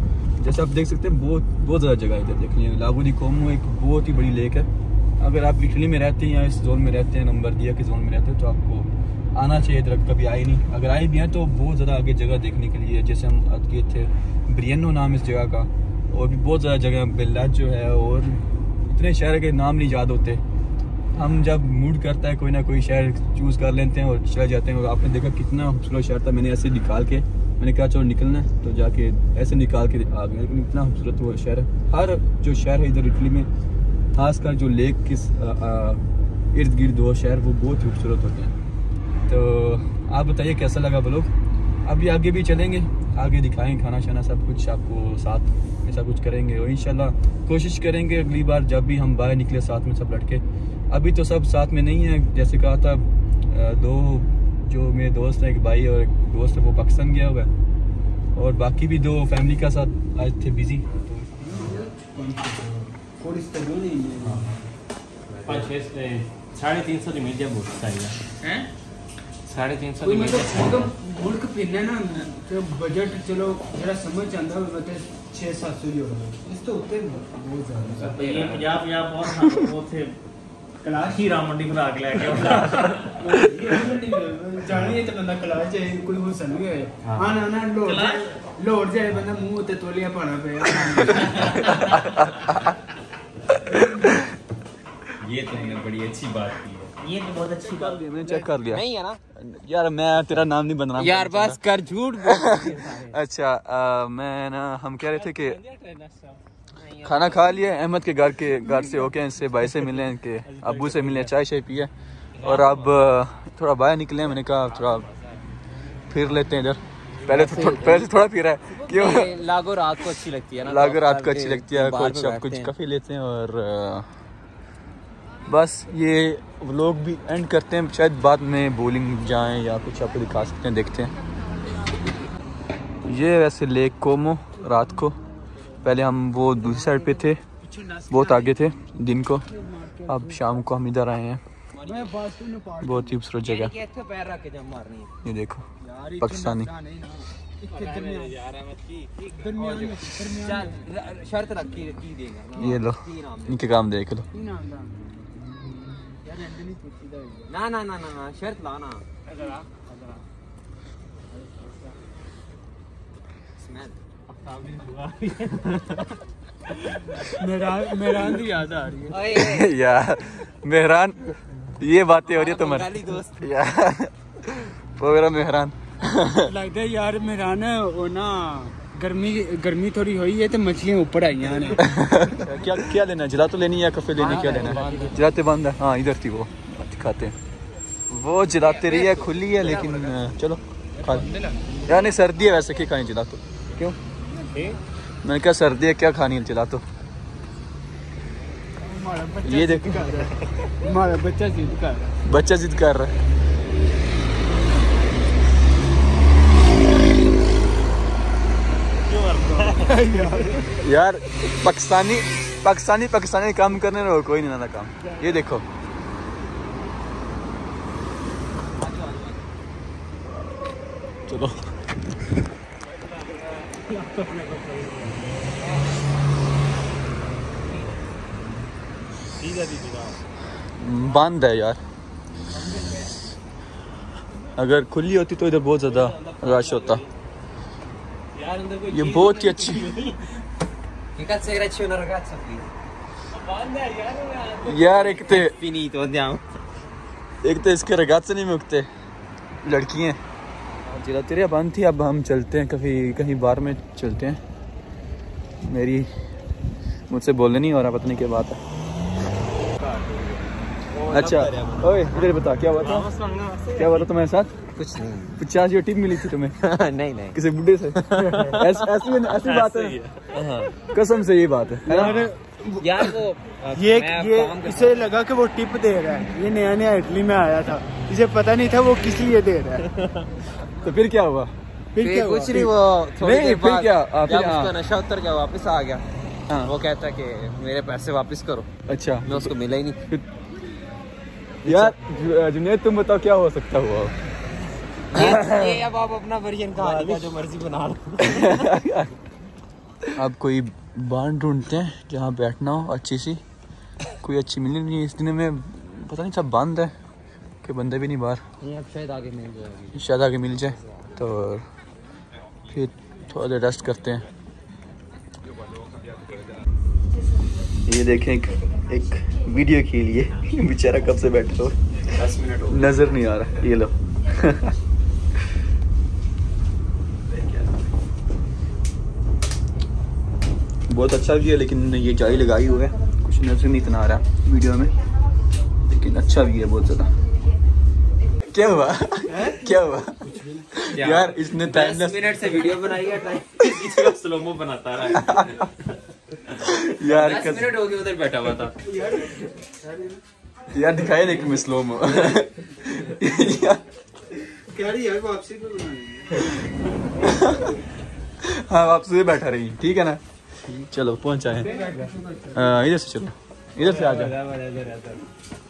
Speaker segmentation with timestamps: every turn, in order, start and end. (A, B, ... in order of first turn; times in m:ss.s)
0:00.4-0:20.4 A
0:21.1-0:33.5 A
0:34.1-0:38.5 A
0:39.3-0:41.3 A
0:41.8-0:57.5 A
0:58.4-1:01.3 A
1:01.4-1:04.6 B
1:05.5-1:08.2 C
1:09.5-1:10.8 C
1:09.5-1:10.0 D
1:10.0-1:18.3 B
1:10.6-1:10.9 D
1:18.0-1:20.2 C
1:18.1-1:18.7 D
1:20.8-1:21.3 B
1:21.1-1:23.2 C
1:23.0-1:32.0 B
1:27.9-1:28.3 C
1:31.8-1:32.2 A
1:33.7-1:34.2 A
1:35.2-1:36.9 D
1:37.0-1:37.9 C
1:37.6-1:38.8 A
1:38.7-1:39.2 D
1:39.4-1:41.6 A
1:41.0-1:43.2 D
1:42.2-1:45.6 A
1:45.2-1:46.4 C
1:46.8-1:47.6 D
1:47.0-1:55.1 A
1:50.5-1:51.3 C
1:56.1-1:59.3 A
1:57.3-1:57.6 C
1:57.3-1:58.1 D
1:58.7-2:02.7 D
2:00.6-2:04.1 A
2:05.5-2:11.1 A
2:13.0-2:15.2 A
2:15.2-2:15.6 B
2:15.8-2:17.4 A
2:16.6-2:17.1 B
2:17.6-2:18.8 B
2:18.1-2:19.5 A
2:19.5-2:20.7 B
2:20.1-2:21.4 A
2:21.7-2:22.2 D
2:21.8-2:23.2 B
2:22.8-2:23.7 A
2:23.4-2:25.1 D
2:25.2-2:25.6 A
2:25.8-2:28.4 B
2:26.2-2:26.7 A
2:27.8-2:29.4 C
2:29.2-2:30.8 B
2:29.6-2:33.7 D
2:32.6-2:34.2 A
2:34.3-2:37.5 B
2:37.5-2:39.0 D
2:39.9-2:40.2 B
2:41.3-2:41.9 B
2:43.6-2:44.0 D
2:44.4-2:46.1 C
2:47.2-2:49.2 B
2:49.1-2:49.7 D
2:49.3-2:56.5 A
2:52.2-2:53.5 D
2:56.4-3:02.0 B
3:01.8-3:07.4 A
3:04.2-3:05.2 D
3:04.3-3:04.8 B
3:04.8-3:05.2 C
3:08.1-3:11.3 A
3:08.6-3:10.3 D
3:11.0-3:12.0 B
3:11.9-3:14.0 A
3:14.5-3:14.8 C
3:15.2-3:16.8 A
3:18.8-3:22.2 B
3:19.4-3:20.2 A
3:22.2-3:23.2 A
3:29.0-3:30.0 C
3:29.5-3:30.8 B
3:30.7-3:35.6 A
3:38.8-3:39.4 D
3:41.3-3:41.7 A
3:44.1-3:44.9 B
3:49.4-3:50.2 C
3:50.8-3:51.8 A
3:52.7-3:53.0 B
3:54.6-3:57.0 A
3:56.0-3:57.0 C
3:58.4-4:00.4 C
3:58.9-4:00.0 A
4:01.2-4:02.7 D
4:03.4-4:04.9 C
4:04.6-4:05.5 A
4:05.1-4:06.4 D
4:07.4-4:08.9 A
4:09.6-4:10.2 A
4:10.8-4:14.4 A
4:15.6-4:16.1 A
4:17.1-4:18.6 A
4:21.0-4:21.7 D
4:21.1-4:23.1 A
4:22.8-4:24.0 C
4:23.7-4:24.5 A
4:24.8-4:25.4 D
4:25.4-4:26.6 A
4:26.6-4:27.4 D
4:27.3-4:30.0 A
4:28.0-4:28.6 D
4:29.4-4:30.2 C
4:30.3-4:30.7 D
4:30.8-4:32.2 A
4:31.9-4:33.1 B
4:31.9-4:35.1 D
4:33.7-4:39.9 B
4:40.8-4:41.5 A
4:41.9-4:42.7 B
4:42.0-4:46.0 D
4:43.2-4:44.7 A
4:46.6-4:48.7 D
4:48.9-4:49.5 A
4:49.2-4:50.0 D
4:51.6-4:52.0 D
4:51.6-4:54.1 A
4:55.1-4:58.7 D
4:55.2-4:55.8 A
4:58.2-4:59.1 A
5:00.2-5:03.4 A
5:04.2-5:07.0 A
5:07.6-5:08.4 A
5:08.6-5:10.0 D
5:09.9-5:11.6 A
5:12.7-5:14.2 A
5:17.9-5:21.8 A
5:22.1-5:22.8 D
5:22.7-5:24.7 A
5:30.9-5:34.9 A
5:35.9-5:37.1 A
5:38.5-5:42.4 A
5:40.3-5:40.6 B
5:40.9-5:45.6 D
5:46.5-5:47.8 A
5:46.9-5:48.8 D
5:48.9-5:50.2 B
5:50.7-5:53.8 A
5:54.5-5:56.7 B
5:57.2-5:57.7 A
5:58.4-6:01.7 A
6:01.5-6:02.8 B
6:02.5-6:04.4 A
6:04.5-6:05.2 C